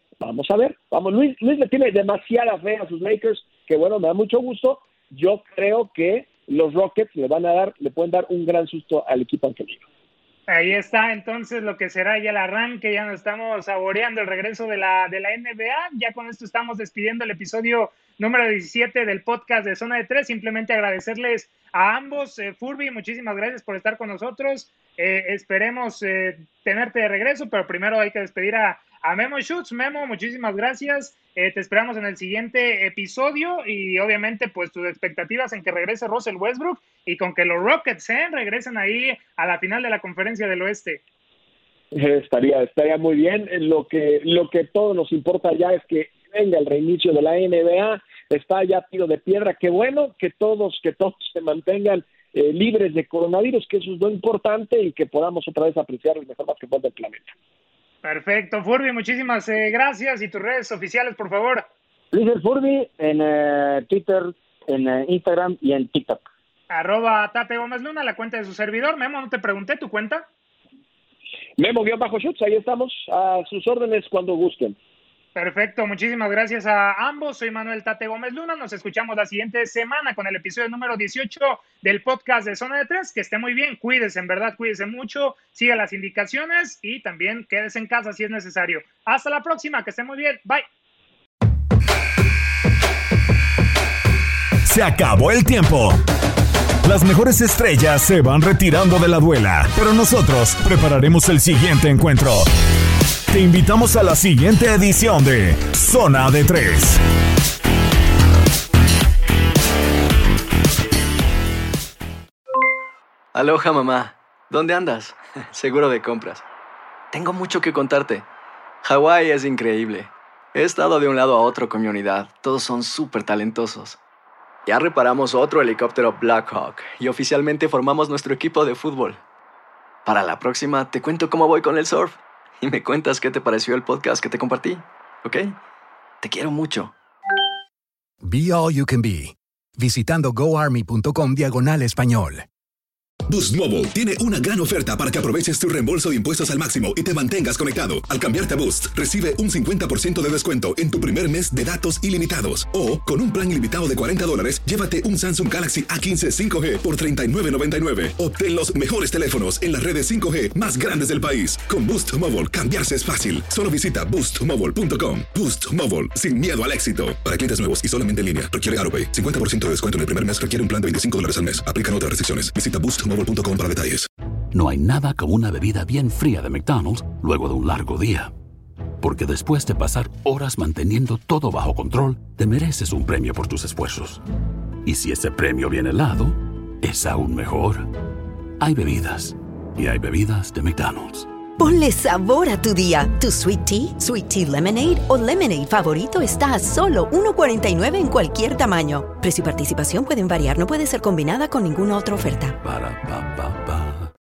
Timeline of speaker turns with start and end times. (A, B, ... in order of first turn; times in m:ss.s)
0:00.2-0:09.8 A
0:10.5-0:41.0 B
0:41.9-0:57.3 A
0:58.0-1:01.6 B
1:02.1-1:06.2 C
1:06.7-1:10.2 B
1:11.6-1:14.8 A
1:15.3-1:30.6 B
1:34.6-1:35.9 D
1:36.8-1:42.4 D
1:43.3-1:47.0 D
1:53.3-1:56.4 E
1:57.1-1:58.2 E
1:58.8-2:04.0 E
2:04.6-2:09.2 E
2:10.0-2:15.6 E
2:16.2-2:16.9 E
2:18.2-2:22.4 F
2:23.3-2:54.1 G
2:54.5-2:58.3 H
2:59.0-3:04.2 H
3:04.8-3:07.9 H
3:08.6-3:11.3 H
3:11.6-3:22.6 I
3:22.6-3:24.1 H